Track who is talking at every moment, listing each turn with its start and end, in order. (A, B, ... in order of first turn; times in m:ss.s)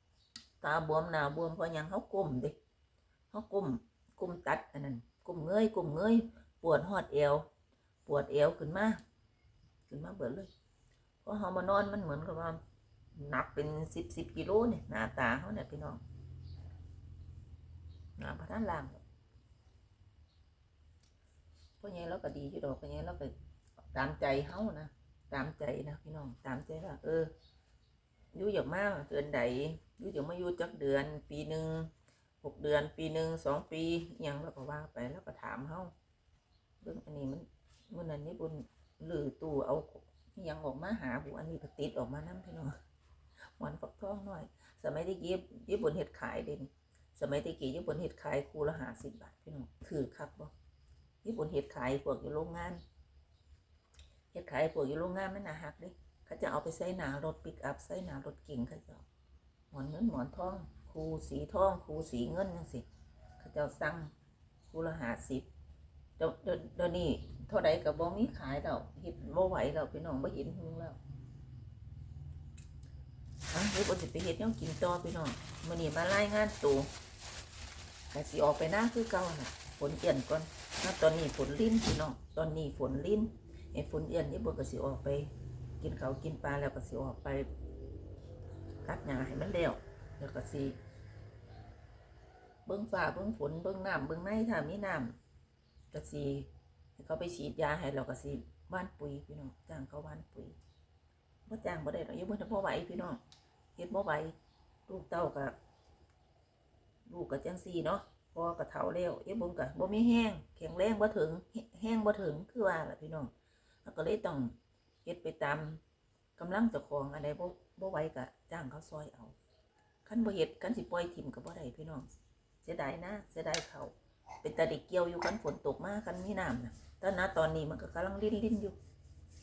0:00.6-0:02.6 A
0:03.3-0:07.5 A
0:08.0-0:09.0 A
0:09.9-0:10.5 A
0:11.2-0:12.6 A
0:13.2-0:16.0 A
0:18.2-0:19.0 A
0:21.8-0:27.3 A
0:28.3-0:35.9 A
0:36.8-0:42.8 A
0:43.6-0:50.5 A
0:51.2-0:52.8 A
0:54.3-0:59.0 A
0:59.7-1:02.9 A
1:03.4-1:04.1 A
1:04.7-1:05.5 A
1:06.2-1:11.0 A
1:13.5-1:16.9 A
1:18.1-1:27.5 A
1:28.8-1:30.8 A
1:32.7-1:35.2 A
1:35.9-1:40.6 A
1:41.5-1:43.2 A
1:43.8-1:44.4 A
1:44.9-1:45.6 A
1:47.1-1:53.3 A
1:53.8-1:55.8 A
1:56.4-1:59.4 A
2:00.0-2:02.1 A
2:02.6-2:08.8 A